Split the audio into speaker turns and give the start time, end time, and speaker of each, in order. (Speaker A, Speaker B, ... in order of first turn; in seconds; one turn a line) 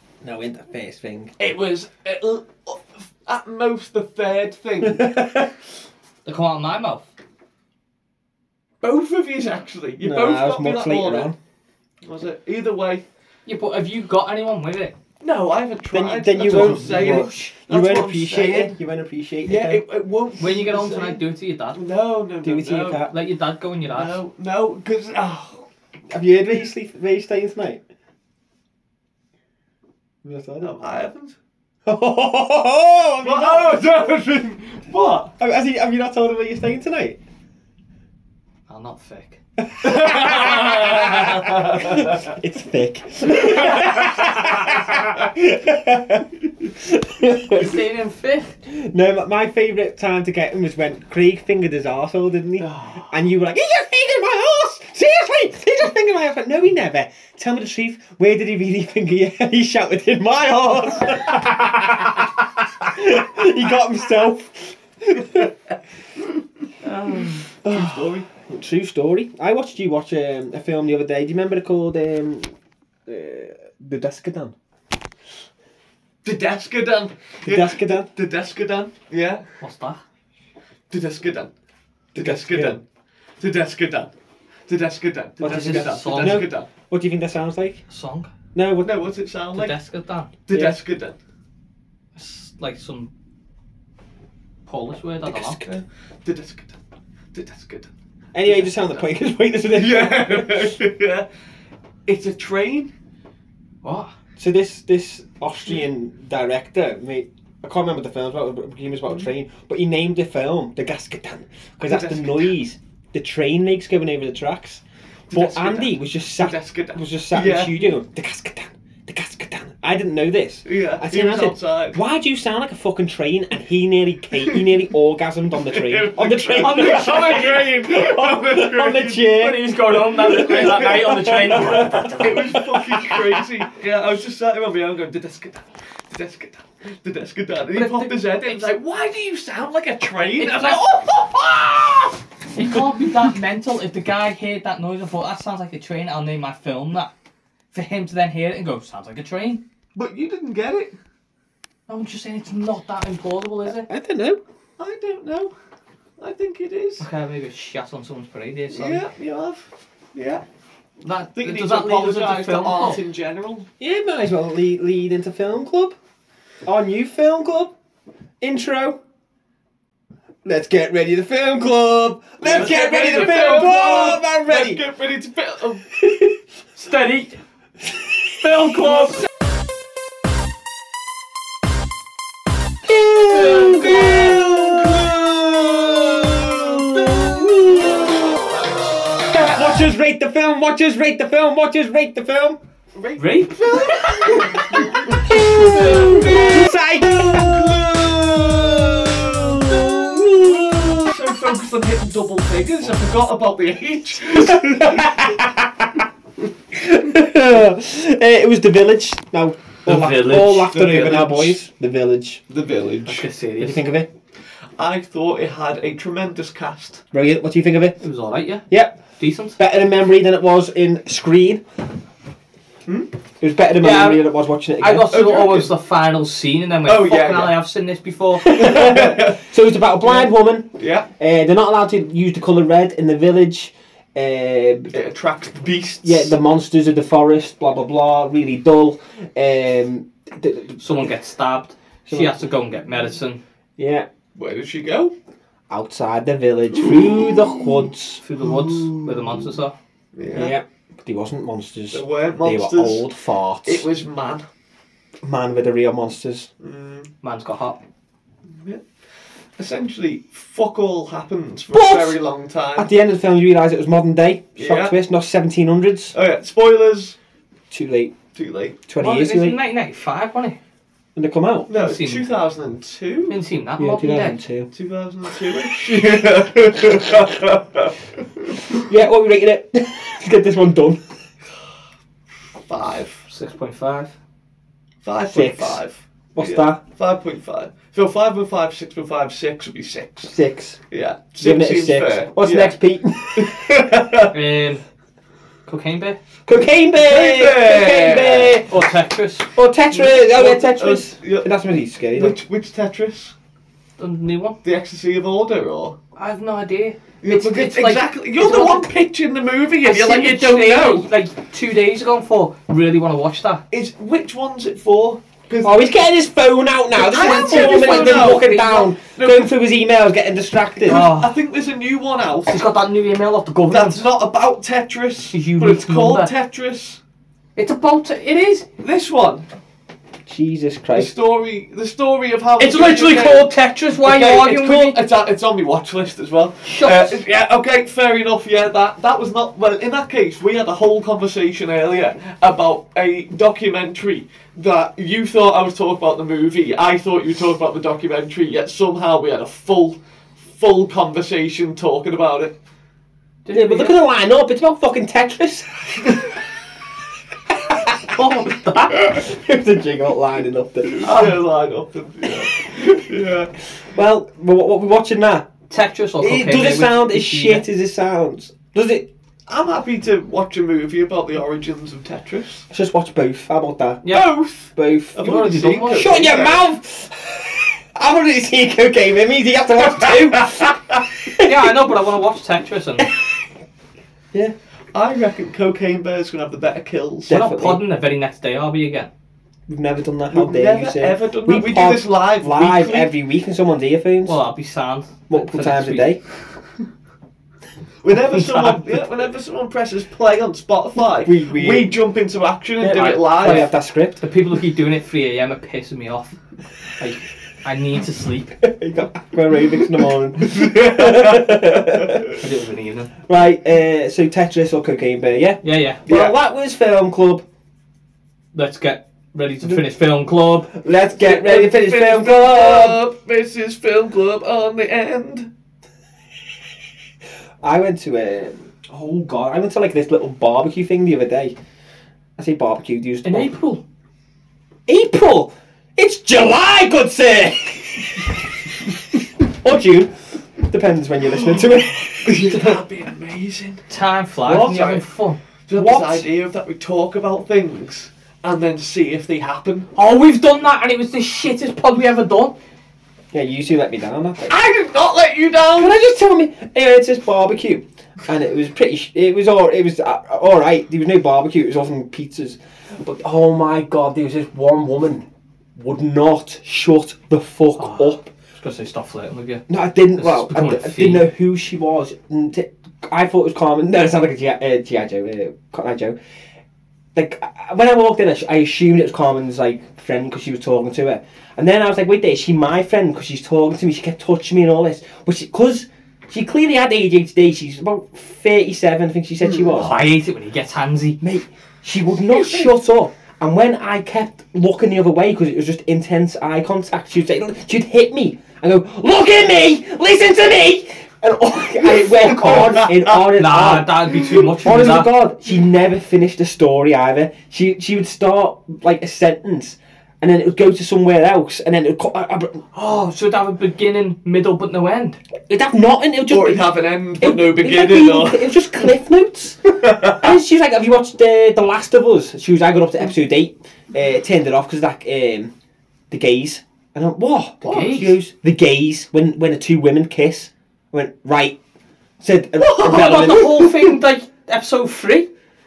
Speaker A: 0.2-1.3
Speaker B: 1.4-5.1
Speaker A: 4.8-5.5
Speaker C: 6.2-7.1
Speaker B: 8.8-11.3
Speaker A: 10.0-11.3
Speaker B: 12.0-13.0
Speaker C: 13.4-14.9
Speaker B: 15.2-18.8
Speaker A: 15.9-19.8
Speaker C: 16.4-17.5
Speaker B: 19.4-23.1
Speaker C: 20.4-21.8
Speaker A: 22.4-23.1
Speaker C: 22.9-24.2
Speaker B: 23.9-25.6
Speaker A: 26.1-27.8
Speaker A: 30.2-30.8
Speaker B: 30.6-31.4
Speaker A: 31.9-33.9
Speaker B: 33.2-35.3
Speaker A: 35.4-37.2
Speaker C: 38.7-39.4
Speaker A: 39.6-47.8
Speaker B: 39.8-42.2
Speaker C: 47.5-48.5
Speaker A: 48.6-65.5
Speaker B: 52.6-53.1
Speaker C: 66.9-67.4
Speaker B: 67.6-68.3
Speaker A: 67.6-72.5
Speaker A: 73.0-74.5
Speaker B: 76.2-79.4
Speaker A: 77.4-78.1
Speaker C: 79.6-80.0
Speaker B: 80.9-81.5
Speaker B: 82.1-82.8
Speaker A: 82.2-82.8
Speaker B: 83.4-84.1
Speaker B: 84.7-86.7
Speaker A: 85.4-87.8
Speaker C: 85.4-86.5
Speaker C: 87.9-88.3
Speaker A: 88.5-88.9
Speaker B: 88.8-89.8
Speaker C: 89.5-90.3
Speaker B: 90.5-91.2
Speaker A: 90.5-90.8
Speaker C: 92.2-93.1
Speaker C: 94.7-95.6
Speaker A: 95.2-95.8
Speaker B: 95.6-96.7
Speaker B: 97.3-97.9
Speaker A: 98.3-100.8
Speaker B: 99.7-101.2
Speaker B: 102.1-102.9
Speaker C: 103.8-104.1
Speaker A: 104.4-133.5
Speaker B: 111.8-112.5
Speaker B: 115.3-117.9
Speaker B: 120.6-122.0
Speaker B: 125.6-129.3
Speaker C: 126.5-127.7
Speaker C: 129.2-132.4
Speaker B: 130.2-142.2
Speaker C: 137.7-138.7
Speaker C: 140.4-140.8
Speaker C: 142.5-147.1
Speaker C: 147.7-149.6
Speaker B: 149.9-150.9
Speaker C: 151.9-153.9
Speaker A: 153.7-154.4
Speaker B: 154.8-155.5
Speaker B: 156.2-157.0
Speaker C: 157.0-159.0
Speaker B: 158.7-160.4
Speaker C: 161.0-163.0
Speaker B: 161.3-163.7
Speaker A: 163.8-165.9
Speaker A: 166.7-167.7
Speaker A: 168.4-169.0
Speaker A: 170.4-174.8
Speaker B: 172.4-175.9
Speaker A: 176.0-176.3
Speaker C: 176.8-177.4
Speaker C: 178.4-179.2
Speaker A: 182.8-188.3
Speaker C: 183.3-184.4
Speaker B: 183.5-185.1
Speaker A: 189.2-192.6
Speaker B: 192.9-205.1
Speaker C: 193.2-193.9
Speaker A: 193.8-201.2
Speaker C: 195.1-196.7
Speaker A: 204.5-206.0
Speaker A: 206.7-212.4
Speaker C: 209.8-210.7
Speaker B: 210.6-211.6
Speaker B: 212.5-213.3
Speaker C: 213.1-213.8
Speaker A: 213.6-214.1
Speaker B: 214.8-217.0
Speaker A: 217.1-218.0
Speaker C: 218.0-218.7
Speaker A: 218.7-219.0
Speaker C: 219.2-219.6
Speaker A: 219.6-221.6
Speaker A: 223.4-225.2
Speaker C: 223.8-228.5
Speaker B: 225.1-225.7
Speaker B: 226.8-227.6
Speaker A: 228.4-234.9
Speaker B: 228.5-229.4
Speaker B: 230.0-231.1
Speaker B: 234.9-236.3
Speaker A: 236.0-241.1
Speaker C: 240.8-243.4
Speaker A: 242.1-242.5
Speaker A: 243.8-244.1
Speaker B: 244.3-245.1
Speaker A: 245.7-248.2
Speaker B: 246.9-247.8
Speaker C: 248.2-249.7
Speaker B: 248.4-249.6
Speaker B: 250.1-250.6
Speaker A: 250.3-253.8
Speaker B: 251.9-253.1
Speaker B: 253.6-254.4
Speaker A: 255.2-256.5
Speaker B: 256.6-257.1
Speaker C: 257.2-257.8
Speaker B: 258.5-258.8
Speaker B: 259.6-262.9
Speaker A: 261.7-262.2
Speaker A: 262.8-266.1
Speaker B: 264.6-264.9
Speaker B: 266.1-267.1
Speaker A: 267.7-268.1
Speaker B: 268.3-268.8
Speaker A: 268.9-269.6
Speaker C: 269.0-270.6
Speaker A: 271.1-271.7
Speaker B: 271.7-273.3
Speaker C: 271.7-272.3
Speaker C: 273.3-274.4
Speaker A: 273.8-274.7
Speaker B: 274.7-278.8
Speaker A: 278.7-281.0
Speaker B: 282.6-283.2
Speaker C: 283.3-284.1
Speaker B: 285.0-290.3
Speaker A: 285.2-285.8
Speaker A: 286.4-286.8
Speaker A: 290.3-290.8
Speaker B: 290.9-292.7
Speaker A: 291.4-293.9
Speaker B: 293.4-294.3
Speaker C: 294.3-294.8
Speaker C: 295.6-296.2
Speaker A: 296.4-298.9
Speaker B: 297.0-298.6
Speaker C: 298.7-299.5
Speaker A: 299.5-302.4
Speaker B: 299.9-301.5
Speaker B: 302.1-303.3
Speaker C: 304.0-304.6
Speaker B: 304.6-306.0
Speaker C: 306.1-308.9
Speaker B: 307.2-311.1
Speaker C: 309.8-313.6
Speaker B: 313.7-315.9
Speaker A: 315.6-321.0
Speaker B: 317.0-319.5
Speaker C: 317.1-318.9
Speaker B: 320.8-322.6
Speaker C: 320.9-321.3
Speaker C: 322.5-324.1
Speaker B: 323.7-327.0
Speaker C: 325.3-326.3
Speaker C: 327.6-328.6
Speaker B: 328.8-329.4
Speaker A: 330.3-331.1
Speaker B: 330.9-333.5
Speaker C: 332.6-335.0
Speaker B: 334.0-352.6
Speaker C: 336.6-337.2
Speaker C: 353.4-354.0
Speaker A: 353.5-356.1
Speaker A: 357.7-358.1
Speaker C: 358.1-359.1
Speaker A: 358.9-361.4
Speaker B: 361.0-363.5
Speaker A: 363.9-365.5
Speaker C: 365.7-367.6
Speaker A: 366.2-369.1
Speaker B: 369.5-372.6
Speaker A: 372.7-375.4
Speaker C: 374.0-374.3
Speaker B: 374.1-376.6
Speaker C: 375.2-376.2
Speaker A: 375.9-381.7
Speaker C: 381.4-383.1
Speaker B: 384.9-387.3
Speaker A: 387.3-387.8
Speaker C: 387.3-389.1
Speaker A: 389.7-394.4
Speaker B: 390.3-393.1
Speaker C: 394.2-396.1
Speaker A: 395.3-396.2
Speaker B: 398.0-403.7
Speaker C: 398.3-398.8
Speaker A: 401.2-402.0
Speaker A: 402.8-404.2
Speaker C: 402.9-406.4
Speaker C: 407.0-408.6
Speaker A: 408.6-412.4
Speaker B: 410.5-411.6
Speaker C: 412.3-413.1
Speaker A: 413.3-417.4
Speaker C: 415.6-416.0
Speaker B: 416.1-416.3
Speaker C: 418.5-420.7
Speaker A: 420.7-423.0
Speaker B: 421.2-425.5
Speaker A: 427.6-431.5
Speaker A: 432.4-433.5
Speaker C: 433.2-433.8
Speaker A: 434.9-442.8
Speaker B: 441.4-443.8
Speaker C: 443.9-445.4
Speaker A: 444.4-445.0
Speaker B: 444.6-444.9
Speaker B: 445.7-449.9
Speaker A: 445.7-446.2
Speaker C: 449.9-452.6
Speaker A: 453.3-454.5
Speaker B: 454.5-456.0
Speaker A: 455.7-468.3
Speaker C: 467.8-469.6
Speaker A: 469.7-476.1
Speaker C: 470.2-471.3
Speaker A: 477.1-490.0
Speaker C: 489.7-491.2
Speaker A: 491.2-512.6
Speaker B: 502.0-503.1
Speaker C: 503.1-505.1
Speaker C: 512.7-515.2
Speaker A: 515.5-525.5
Speaker B: 516.3-518.7
Speaker B: 519.9-520.2
Speaker A: 526.1-531.6
Speaker C: 527.6-528.2
Speaker A: 532.2-533.7
Speaker C: 532.6-535.3